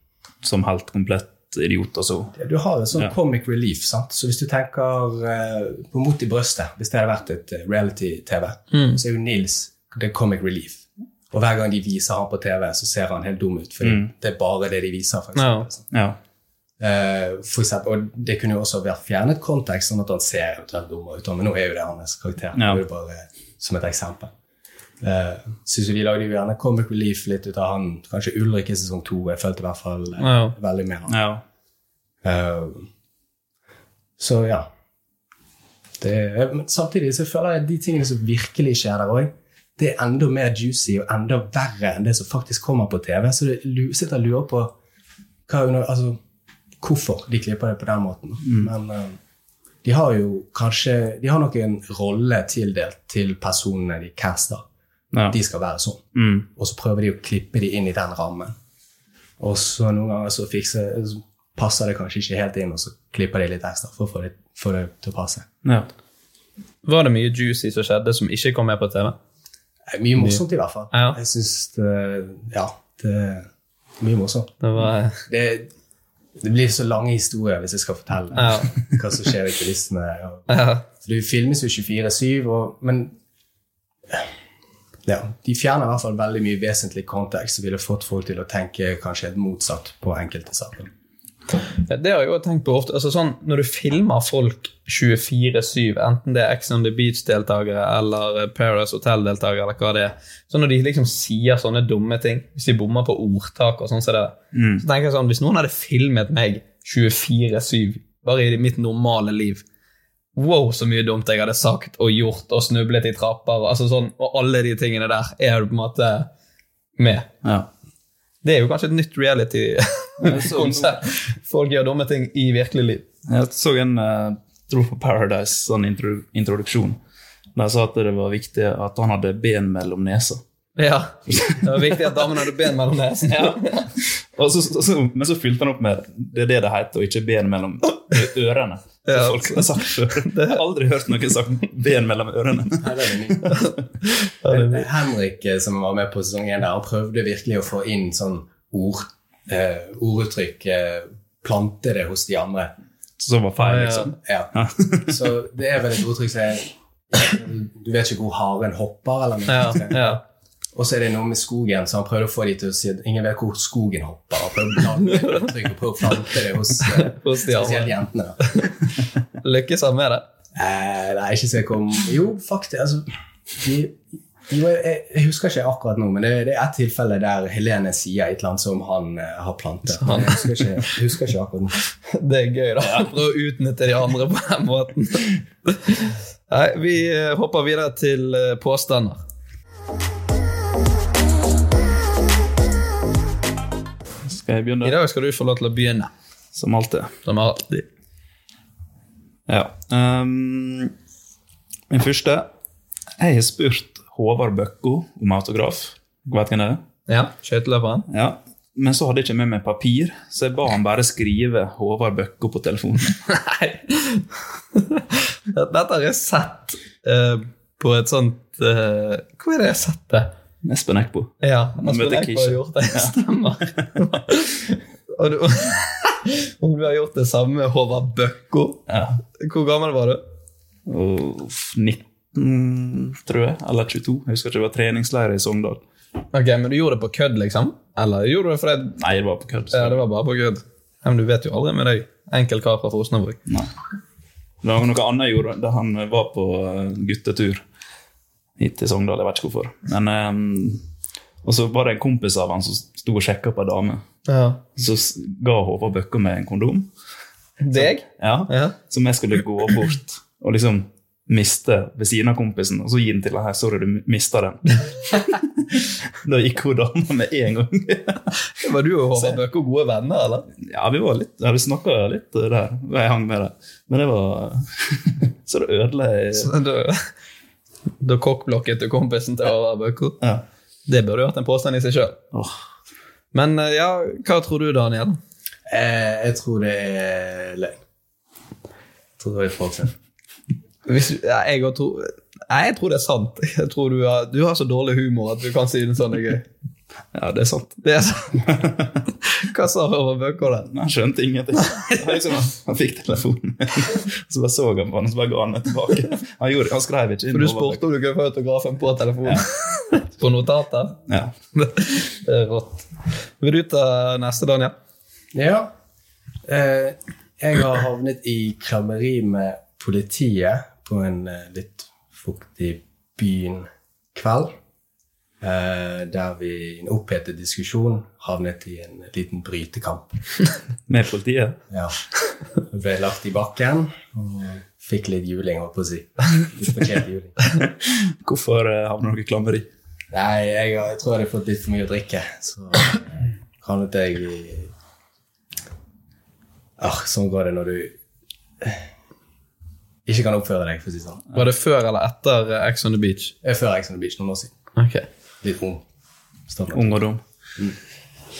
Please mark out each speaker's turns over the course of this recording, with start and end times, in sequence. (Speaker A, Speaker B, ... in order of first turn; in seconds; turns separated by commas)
Speaker A: 0.4-2.3, Speaker B: 2.4-15.8, Speaker C: 8.7-9.0, Speaker A: 13.8-14.1, Speaker C: 15.3-15.7, Speaker A: 15.9-16.2, Speaker B: 16.8-24.3, Speaker A: 22.5-22.8, Speaker B: 25.0-31.1, Speaker C: 30.2-30.5, Speaker A: 31.1-31.4, Speaker B: 32.2-32.9, Speaker B: 34.2-34.7, Speaker B: 36.0-44.7, Speaker B: 45.5-46.2, Speaker B: 46.8-49.2, Speaker A: 48.4-48.7, Speaker B: 49.8-54.6, Speaker B: 55.3-58.5, Speaker A: 56.1-56.5, Speaker B: 59.4-65.5, Speaker A: 65.6-65.9, Speaker C: 66.8-69.2, Speaker B: 69.9-73.5, Speaker C: 70.9-71.2, Speaker B: 74.0-74.5, Speaker C: 74.6-75.2, Speaker B: 75.3-75.7, Speaker B: 76.4-83.1, Speaker C: 78.3-78.7, Speaker C: 80.5-80.8, Speaker B: 85.0-90.9, Speaker C: 91.9-109.6, Speaker A: 104.5-104.8, Speaker C: 110.3-116.3, Speaker C: 117.0-117.3, Speaker C: 118.4-123.0, Speaker A: 120.2-121.0, Speaker A: 123.3-127.0, Speaker A: 127.5-130.4, Speaker C: 130.8-133.9, Speaker A: 131.3-132.2, Speaker A: 133.3-143.1, Speaker C: 139.1-140.6, Speaker B: 142.8-143.7, Speaker C: 143.5-144.9, Speaker B: 144.5-152.7, Speaker A: 153.2-155.3, Speaker C: 153.6-154.1, Speaker B: 154.2-154.5, Speaker B: 155.1-160.2, Speaker C: 159.5-160.2, Speaker B: 160.7-168.5, Speaker C: 167.0-167.9, Speaker C: 169.4-170.2, Speaker B: 170.6-181.8, Speaker C: 180.0-180.4, Speaker C: 182.1-189.2, Speaker A: 182.8-183.1, Speaker A: 194.2-195.0, Speaker C: 194.8-196.1, Speaker A: 196.5-197.1, Speaker C: 197.2-197.8, Speaker A: 199.5-200.9, Speaker A: 201.9-202.5, Speaker A: 203.2-206.8, Speaker C: 207.1-208.1, Speaker A: 208.1-213.2, Speaker C: 213.3-220.3, Speaker A: 220.6-223.9, Speaker C: 221.4-228.8, Speaker A: 228.9-229.2, Speaker C: 229.4-230.2, Speaker A: 230.9-235.8, Speaker C: 236.3-239.0, Speaker A: 239.0-240.0, Speaker C: 239.7-243.4, Speaker A: 244.6-247.6, Speaker A: 248.6-250.8, Speaker A: 251.4-254.0, Speaker C: 254.3-254.6, Speaker A: 254.8-256.9, Speaker C: 257.6-258.8, Speaker A: 257.7-268.3, Speaker C: 268.6-270.4, Speaker A: 270.6-276.5, Speaker C: 276.4-277.1, Speaker C: 278.0-280.2, Speaker C: 280.9-282.2, Speaker C: 283.3-285.2, Speaker B: 285.7-287.7, Speaker B: 289.2-289.9, Speaker C: 290.9-296.4, Speaker A: 297.1-297.8, Speaker C: 297.8-298.4, Speaker A: 298.4-298.9, Speaker C: 299.4-300.7, Speaker A: 300.7-307.8, Speaker C: 301.8-302.2, Speaker C: 307.3-311.0, Speaker A: 311.1-311.3, Speaker C: 311.5-312.9, Speaker C: 313.4-314.7, Speaker B: 315.3-315.7, Speaker B: 316.4-324.5, Speaker B: 325.4-330.1, Speaker A: 330.9-331.6, Speaker B: 331.7-332.0, Speaker B: 332.6-337.5, Speaker A: 337.6-339.7, Speaker B: 340.1-343.0, Speaker B: 343.6-344.7, Speaker B: 346.8-347.9, Speaker B: 350.1-351.2, Speaker C: 351.3-353.3, Speaker B: 353.4-354.5, Speaker C: 354.8-355.1, Speaker B: 355.4-355.8, Speaker B: 356.5-357.0, Speaker A: 356.7-357.2